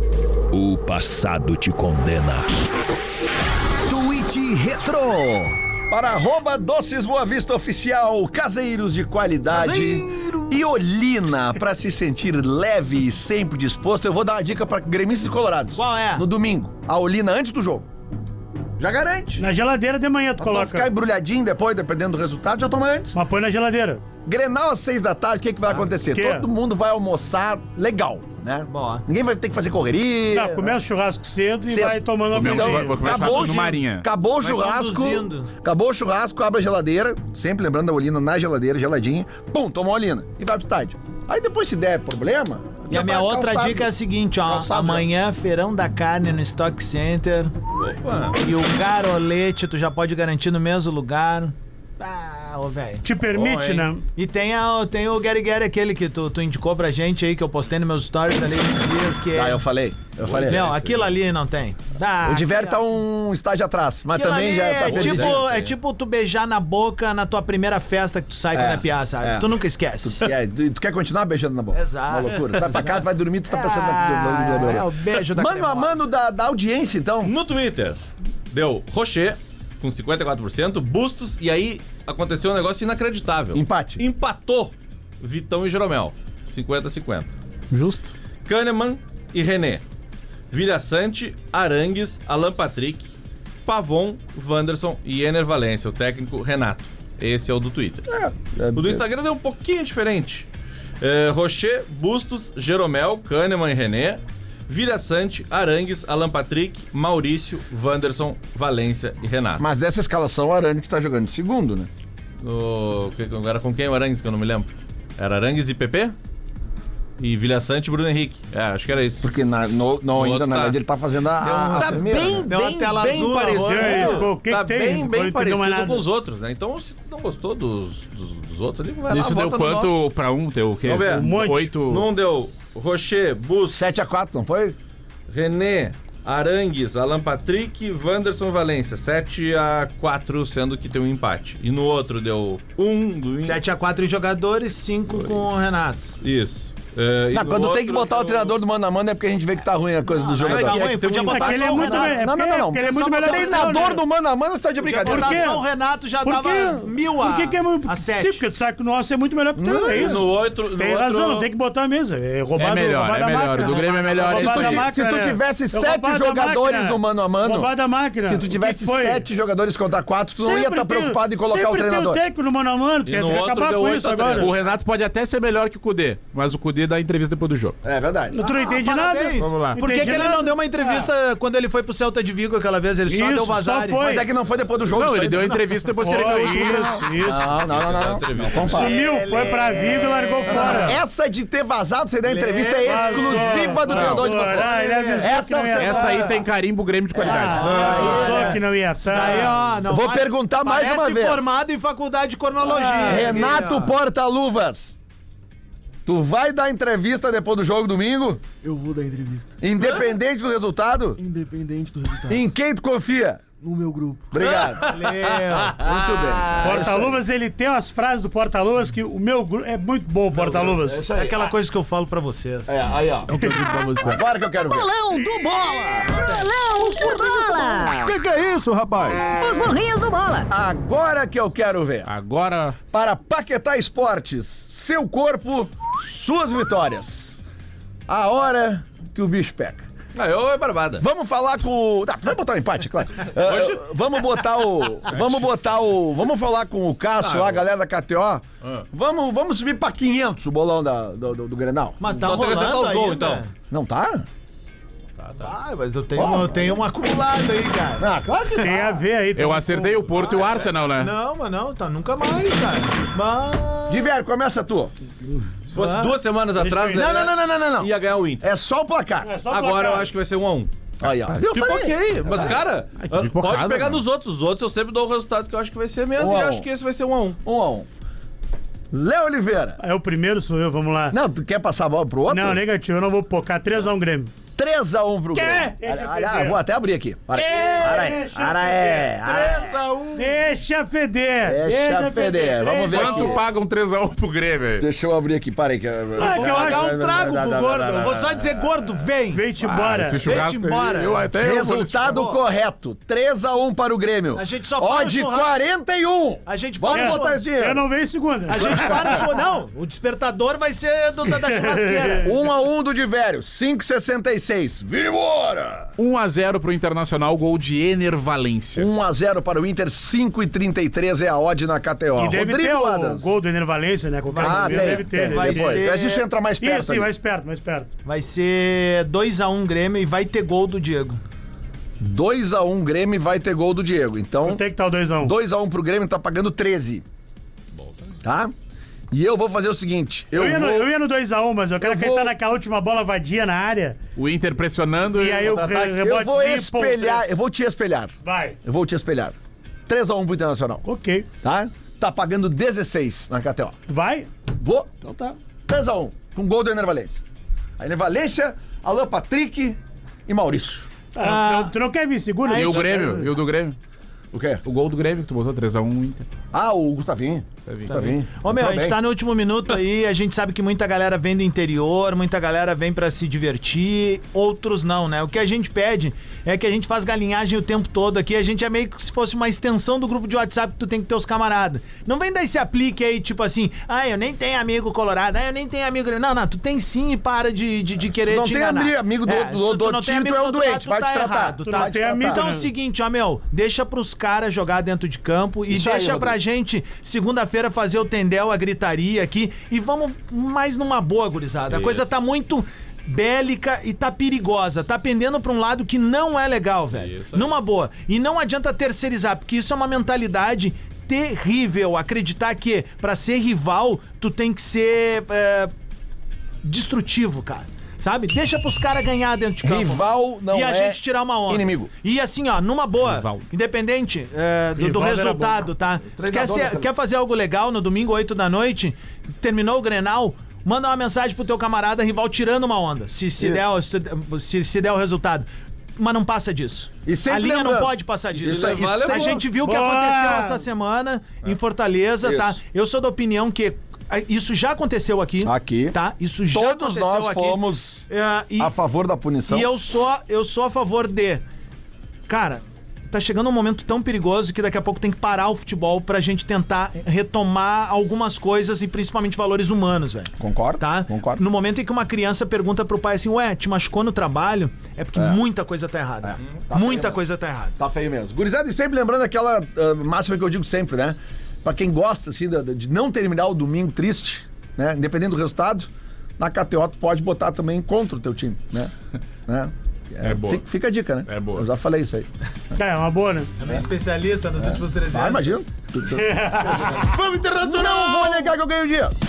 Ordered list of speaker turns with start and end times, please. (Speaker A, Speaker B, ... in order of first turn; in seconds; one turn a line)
Speaker A: 0.8-2.4
Speaker A: 3.9-17.9
Speaker B: 9.5-10.7
Speaker B: 15.7-16.2
Speaker A: 18.8-19.4
Speaker C: 19.4-20.9
Speaker A: 20.4-23.1
Speaker C: 23.1-24.0
Speaker A: 24.2-30.8
Speaker C: 26.1-26.5
Speaker B: 28.7-29.0
Speaker C: 30.3-33.1
Speaker A: 31.7-43.9
Speaker D: 32.3-34.0
Speaker B: 33.1-33.8
Speaker B: 34.4-35.5
Speaker B: 42.9-47.5
Speaker A: 44.4-45.1
Speaker E: 47.8-48.4
Speaker B: 48.4-53.0
Speaker C: 53.0-54.0
Speaker E: 53.3-53.9
Speaker B: 54.1-59.6
Speaker A: 59.3-60.7
Speaker E: 60.2-61.2
Speaker B: 60.5-62.9
Speaker A: 62.2-65.5
Speaker B: 64.1-70.3
Speaker E: 64.8-65.8
Speaker A: 68.5-77.3
Speaker B: 71.7-76.0
Speaker E: 77.2-87.3
Speaker A: 83.5-84.0
Speaker D: 87.7-88.1
Speaker E: 88.5-89.8
Speaker E: 90.5-93.1
Speaker E: 93.7-98.1
Speaker A: 98.1-99.0
Speaker E: 98.7-100.5
Speaker E: 101.0-109.6
Speaker A: 109.6-111.9
Speaker E: 112.4-116.1
Speaker E: 117.2-119.3
Speaker A: 119.2-122.5
Speaker E: 120.1-120.8
Speaker E: 121.4-130.0
Speaker B: 121.7-124.3
Speaker C: 123.6-126.0
Speaker D: 129.1-132.1
Speaker E: 130.8-133.9
Speaker C: 131.0-131.7
Speaker A: 133.7-134.8
Speaker E: 135.3-143.6
Speaker B: 143.4-146.1
Speaker E: 145.1-145.5
Speaker E: 146.2-148.6
Speaker A: 147.3-155.6
Speaker B: 150.1-152.3
Speaker E: 150.4-151.9
Speaker C: 151.2-154.0
Speaker B: 153.2-154.0
Speaker B: 154.8-158.4
Speaker C: 155.0-155.6
Speaker C: 156.2-169.2
Speaker A: 159.6-160.3
Speaker E: 159.9-161.5
Speaker D: 162.6-164.9
Speaker B: 163.6-164.3
Speaker A: 164.2-172.2
Speaker C: 170.3-174.5
Speaker E: 173.1-174.6
Speaker D: 174.3-177.8
Speaker A: 177.8-178.4
Speaker C: 178.3-181.1
Speaker B: 178.4-184.2
Speaker D: 179.3-180.0
Speaker C: 183.1-184.2
Speaker A: 184.0-185.7
Speaker D: 184.9-187.1
Speaker B: 185.0-186.8
Speaker C: 186.0-187.5
Speaker A: 187.0-196.4
Speaker E: 187.3-188.9
Speaker B: 188.7-190.9
Speaker C: 188.7-191.0
Speaker B: 192.2-195.3
Speaker C: 192.8-196.2
Speaker D: 193.9-194.3
Speaker D: 195.8-197.8
Speaker A: 197.1-198.6
Speaker C: 197.2-199.6
Speaker B: 197.3-203.9
Speaker A: 199.3-201.5
Speaker C: 202.6-203.2
Speaker A: 203.0-205.0
Speaker A: 206.1-208.4
Speaker F: 208.6-209.7
Speaker A: 209.6-211.2
Speaker F: 211.2-212.5
Speaker A: 212.3-213.4
Speaker F: 213.6-214.5
Speaker A: 214.3-215.0
Speaker E: 214.4-216.5
Speaker B: 214.8-216.0
Speaker A: 215.7-217.2
Speaker C: 216.6-221.0
Speaker A: 220.3-221.5
Speaker B: 221.1-222.9
Speaker A: 222.7-223.3
Speaker D: 223.3-224.2
Speaker A: 224.0-224.9
Speaker G: 224.7-228.1
Speaker A: 226.0-229.4
Speaker B: 226.1-226.5
Speaker G: 229.3-230.5
Speaker A: 230.4-232.1
Speaker D: 232.1-232.8
Speaker A: 232.9-237.4
Speaker A: 238.1-239.8
Speaker E: 240.1-241.0
Speaker A: 241.0-252.0
Speaker E: 243.3-243.8
Speaker E: 245.1-245.5
Speaker E: 247.2-247.6
Speaker B: 252.0-253.5
Speaker E: 252.1-253.4
Speaker A: 253.7-254.3
Speaker E: 255.2-255.5
Speaker B: 255.4-258.9
Speaker A: 256.1-256.9
Speaker A: 258.0-259.0
Speaker C: 258.6-260.1
Speaker D: 259.3-261.1
Speaker B: 260.2-264.1
Speaker A: 263.9-264.9
Speaker E: 265.7-268.4
Speaker B: 265.8-266.2
Speaker C: 266.6-267.0
Speaker A: 266.9-269.4
Speaker C: 269.2-270.1
Speaker E: 269.5-270.7
Speaker A: 271.0-272.5
Speaker E: 271.4-277.4
Speaker D: 273.0-274.0
Speaker A: 276.2-276.7
Speaker A: 277.4-277.9
Speaker A: 278.9-279.8
Speaker C: 279.8-281.2
Speaker A: 281.1-282.6
Speaker C: 282.3-284.3
Speaker A: 284.6-289.8
Speaker C: 285.3-286.6
Speaker C: 287.4-289.3
Speaker D: 287.6-288.1
Speaker D: 289.4-290.3
Speaker C: 290.1-293.4
Speaker A: 291.4-293.4
Speaker D: 292.9-294.9
Speaker A: 294.8-298.6
Speaker C: 296.2-296.9
Speaker B: 296.2-299.5
Speaker C: 299.3-300.4
Speaker D: 299.6-302.0
Speaker B: 300.2-301.3
Speaker A: 301.4-307.9
Speaker B: 301.9-302.4
Speaker B: 304.3-305.5
Speaker B: 306.5-307.4
Speaker C: 306.9-309.2
Speaker B: 308.5-312.4
Speaker A: 308.6-309.2
Speaker C: 311.4-312.3
Speaker A: 312.2-315.9
Speaker D: 316.0-318.9
Speaker A: 318.7-323.3
Speaker C: 322.1-325.9
Speaker B: 324.3-326.2
Speaker A: 324.4-327.1
Speaker C: 326.6-327.9
Speaker B: 328.0-331.2
Speaker A: 332.0-334.6
Speaker C: 334.4-335.3
Speaker A: 335.2-337.0
Speaker E: 337.7-338.2
Speaker A: 338.2-338.5
Speaker A: 339.1-340.9
Speaker C: 340.3-344.0
Speaker A: 341.8-342.4
Speaker D: 344.1-346.0
Speaker C: 345.1-347.4
Speaker A: 346.0-349.4
Speaker C: 348.2-348.6
Speaker A: 349.9-350.8
Speaker C: 350.8-351.2
Speaker A: 351.4-353.8
Speaker C: 353.9-354.3
Speaker A: 354.5-354.9
Speaker C: 355.0-355.4
Speaker A: 355.7-357.2
Speaker A: 357.8-360.9
Speaker C: 361.1-363.1
Speaker B: 361.2-361.7
Speaker B: 362.4-363.3
Speaker D: 362.5-363.8
Speaker A: 364.3-364.6
Speaker D: 364.6-366.3
Speaker A: 366.5-369.0
Speaker B: 367.9-415.7
Speaker A: 388.2-392.5
Speaker C: 391.6-392.7
Speaker A: 395.7-396.4
Speaker E: 401.7-402.1
Speaker E: 406.9-407.6
Speaker B: 416.6-448.7
Speaker A: 419.6-421.9
Speaker D: 423.0-423.5
Speaker C: 424.8-425.5
Speaker A: 426.1-426.9
Speaker A: 437.1-439.4
Speaker E: 438.3-439.5
Speaker C: 439.6-440.6
Speaker A: 442.2-442.6
Speaker A: 445.4-446.0
Speaker A: 446.5-448.0
Speaker A: 448.6-449.7
Speaker B: 449.5-451.4
Speaker B: 452.3-467.8
Speaker A: 460.4-461.4
Speaker A: 465.1-465.4
Speaker A: 466.2-467.2
Speaker A: 467.8-478.9
Speaker A: 479.5-482.3
Speaker D: 480.2-480.6
Speaker D: 481.3-481.6
Speaker C: 482.7-483.5
Speaker B: 483.6-485.4
Speaker A: 484.6-486.5
Speaker C: 486.1-487.1
Speaker B: 486.8-488.5
Speaker A: 487.6-489.1